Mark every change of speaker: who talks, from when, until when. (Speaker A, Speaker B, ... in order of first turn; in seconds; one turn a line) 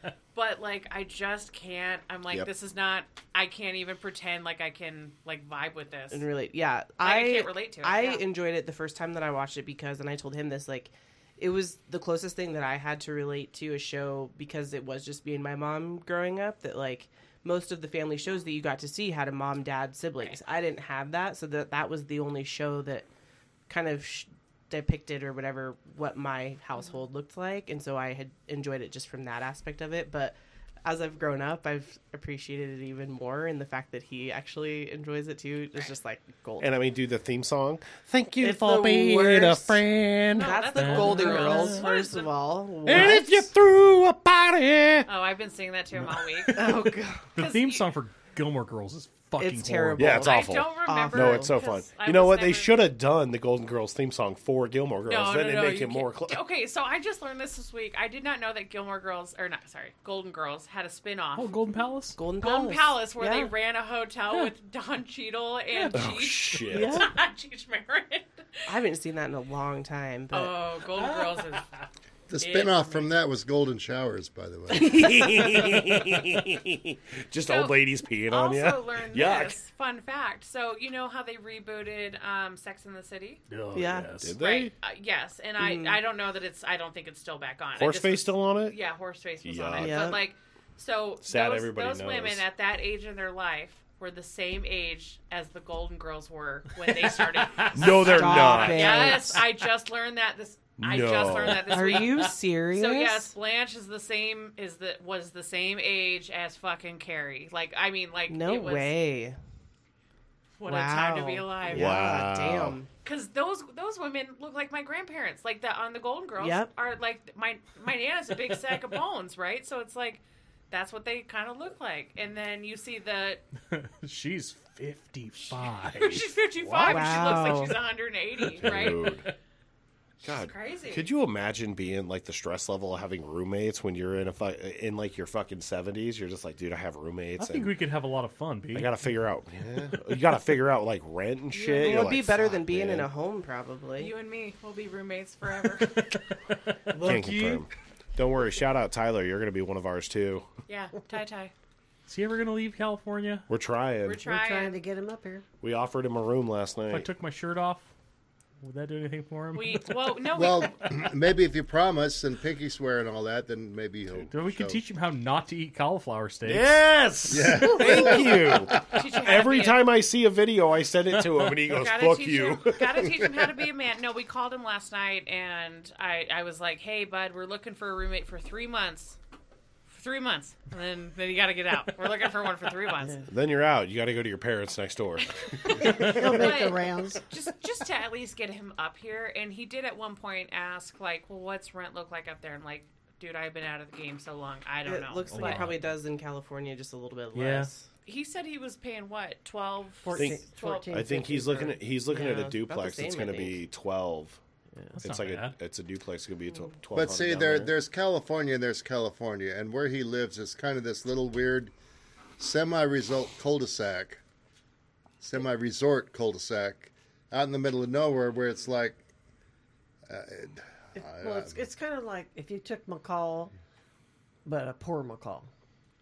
Speaker A: 0.3-6.2
Speaker B: 6.1-23.1
Speaker A: 7.0-8.2
Speaker B: 23.7-36.7
Speaker C: 36.6-40.7
Speaker B: 38.4-39.8
Speaker A: 40.4-42.3
Speaker B: 40.4-43.5
Speaker D: 40.8-41.8
Speaker C: 42.9-45.1
Speaker A: 45.1-46.7
Speaker B: 46.5-47.3
Speaker A: 47.4-47.8
Speaker D: 47.4-50.3
Speaker B: 49.4-51.5
Speaker C: 50.0-56.4
Speaker A: 50.1-52.8
Speaker A: 55.1-61.6
Speaker D: 61.4-62.2
Speaker B: 62.1-63.1
Speaker A: 62.4-68.7
Speaker E: 63.2-63.5
Speaker D: 65.7-66.1
Speaker C: 65.9-67.1
Speaker B: 66.7-67.1
Speaker B: 68.7-70.6
Speaker A: 70.3-71.7
Speaker D: 71.0-71.6
Speaker F: 72.3-75.1
Speaker A: 72.4-73.1
Speaker C: 74.7-79.6
Speaker A: 77.5-77.8
Speaker A: 78.3-83.4
Speaker D: 83.5-84.3
Speaker B: 83.8-84.2
Speaker C: 84.2-84.7
Speaker A: 84.3-108.9
Speaker B: 85.6-86.0
Speaker C: 87.8-88.8
Speaker C: 89.4-90.1
Speaker B: 89.8-90.2
Speaker C: 91.2-92.4
Speaker D: 96.9-97.8
Speaker C: 97.7-99.2
Speaker B: 97.9-99.4
Speaker C: 100.8-101.9
Speaker B: 101.6-103.3
Speaker B: 108.3-109.4
Speaker A: 110.6-112.0
Speaker B: 110.7-112.9
Speaker C: 111.7-112.8
Speaker A: 113.0-123.4
Speaker B: 116.4-116.7
Speaker D: 123.7-127.6
Speaker A: 125.9-129.2
Speaker B: 126.8-127.8
Speaker C: 128.6-129.2
Speaker D: 128.6-129.1
Speaker A: 130.2-131.1
Speaker C: 130.2-137.7
Speaker D: 137.4-138.9
Speaker C: 138.7-143.1
Speaker A: 141.5-142.2
Speaker B: 141.7-144.1
Speaker A: 144.0-146.1
Speaker D: 145.9-147.7
Speaker C: 146.9-150.5
Speaker A: 150.7-151.5
Speaker D: 152.1-153.5
Speaker C: 153.5-154.3
Speaker A: 154.0-154.8
Speaker E: 154.2-155.4
Speaker C: 155.6-157.1
Speaker D: 156.9-157.9
Speaker D: 158.6-159.8
Speaker A: 159.6-160.8
Speaker F: 160.3-164.8
Speaker D: 164.3-166.8
Speaker C: 166.4-173.1
Speaker F: 167.3-168.7
Speaker E: 167.7-168.2
Speaker A: 168.8-169.9
Speaker A: 171.7-179.2
Speaker A: 179.9-183.2
Speaker C: 183.3-186.1
Speaker A: 185.2-195.7
Speaker E: 185.7-187.3
Speaker B: 194.8-197.9
Speaker D: 195.3-195.8
Speaker D: 197.3-197.7
Speaker A: 198.1-200.9
Speaker E: 200.0-201.7
Speaker C: 200.2-204.4
Speaker B: 202.1-203.6
Speaker D: 205.0-205.6
Speaker C: 205.0-207.7
Speaker F: 206.9-211.7
Speaker F: 212.4-214.2
Speaker F: 215.2-219.0
Speaker F: 220.1-221.7
Speaker E: 220.9-223.5
Speaker E: 224.4-225.5